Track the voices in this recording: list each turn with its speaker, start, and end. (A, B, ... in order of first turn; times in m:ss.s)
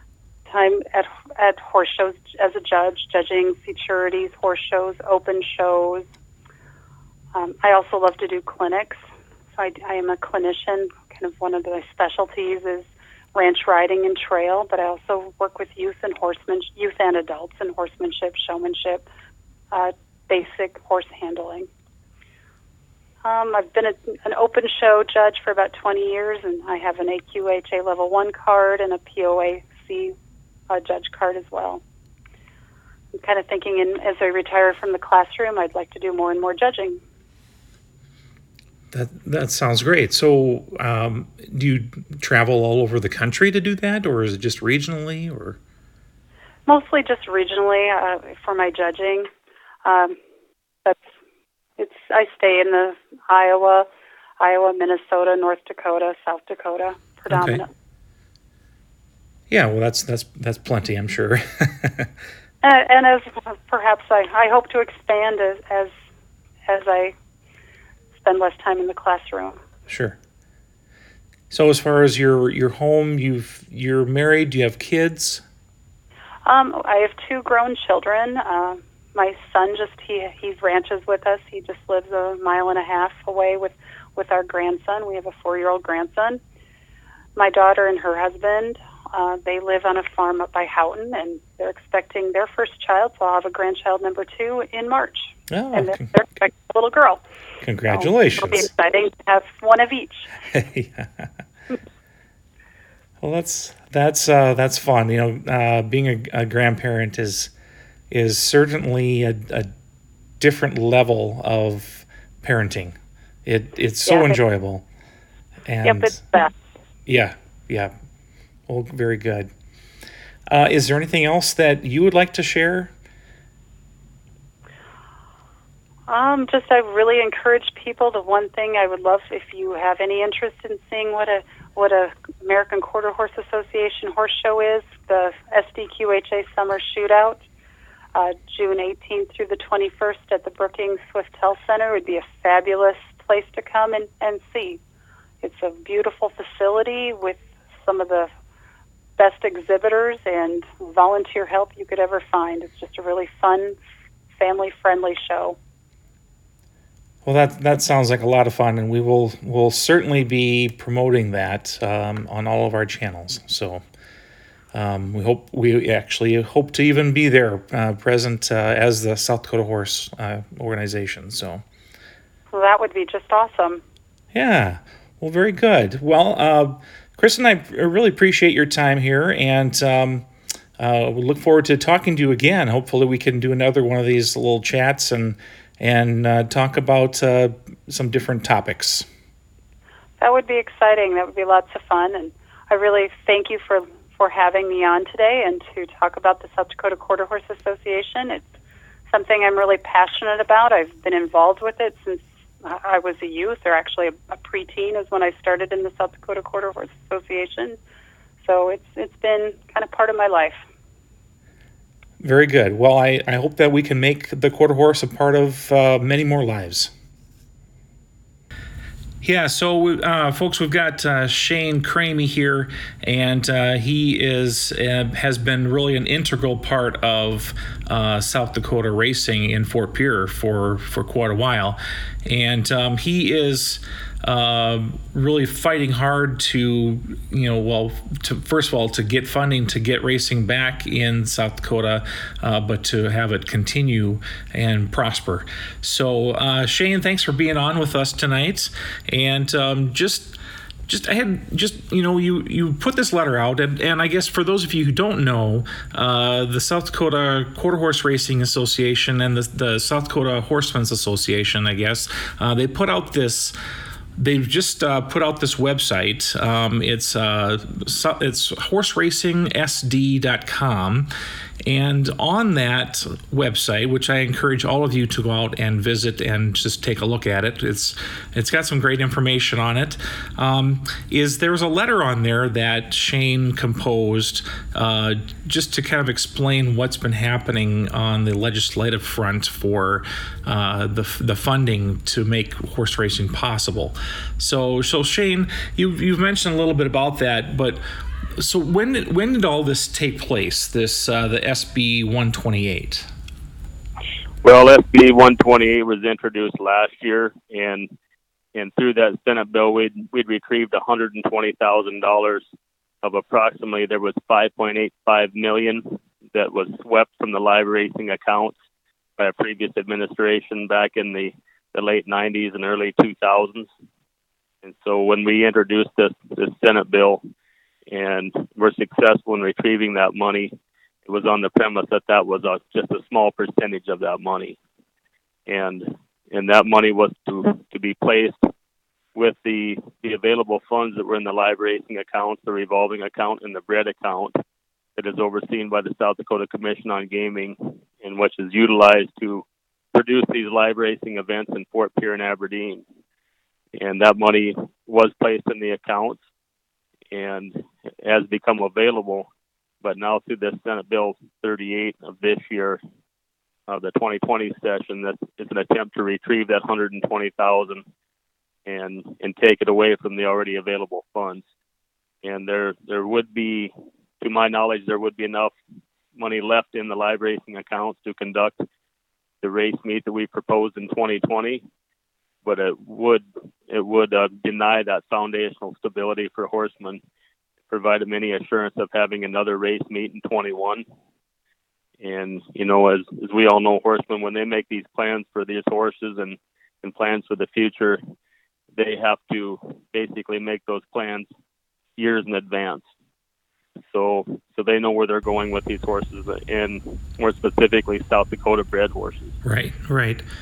0:00.5-0:06.0 A
0:07.3-0:09.0 A
0:09.6-0:19.0 A
0:19.7-0:21.7 A
0:23.2-0:30.1 A
0:30.7-0:31.8 A
0:33.1-0:37.0 A
0:38.9-0:45.6 B
0:46.7-0:49.3 A
0:49.8-0:50.2 A
0:51.8-0:53.9 A
0:54.4-0:57.7 A
0:57.3-0:57.6 B
0:59.5-1:02.1 B
1:02.6-1:05.9 A
1:06.7-1:07.1 A
1:08.2-1:09.6 A
1:09.9-1:10.2 B
1:11.5-1:15.4 B
1:16.4-1:26.4 A
1:27.4-1:37.2 A
1:35.5-1:36.1 B
1:37.6-1:38.7 B
1:37.9-1:40.3 A
1:40.5-1:41.3 B
1:43.2-1:47.5 B
1:48.1-1:49.7 B
1:50.4-1:54.8 B
1:54.0-1:54.4 A
1:55.6-1:56.2 B
1:55.8-1:56.5 A
1:57.0-1:57.9 B
1:58.7-1:59.5 B
2:00.5-2:02.9 B
2:06.1-2:17.4 A
2:18.1-2:24.8 A
2:25.4-2:28.3 A
2:29.2-2:33.8 A
2:34.4-2:35.6 A
2:37.2-2:43.8 B
2:44.7-2:51.6 B
2:52.5-2:53.8 A
2:54.3-3:00.3 B
3:00.8-3:09.0 B
3:10.2-3:18.5 A
3:19.1-3:27.8 A
3:28.4-3:30.6 A
3:32.2-3:36.9 B
3:39.2-4:23.5 B
4:24.2-4:31.1 B
4:31.6-4:57.8 B
4:58.4-5:03.1 B
5:04.4-5:07.9 C
5:08.5-5:12.4 C
5:13.0-5:18.6 C
5:19.2-5:23.7 C
5:24.6-5:27.2 C
5:27.9-5:30.5 C
5:31.0-5:34.6 C
5:35.5-5:38.4 C
5:39.1-5:44.4 C
5:45.0-5:52.8 C
5:53.8-5:56.2 C
5:57.1-5:59.3 C
5:59.8-6:02.8 C
6:03.7-6:07.8 C
6:08.6-6:11.4 C
6:12.2-6:15.5 C
6:16.2-6:18.6 C
6:19.4-6:21.6 C
6:22.4-6:27.0 C
6:27.7-6:30.8 C
6:32.0-6:38.0 C
6:38.8-6:41.3 C
6:42.0-6:42.8 C
6:43.9-6:49.3 C
6:49.4-6:50.2 B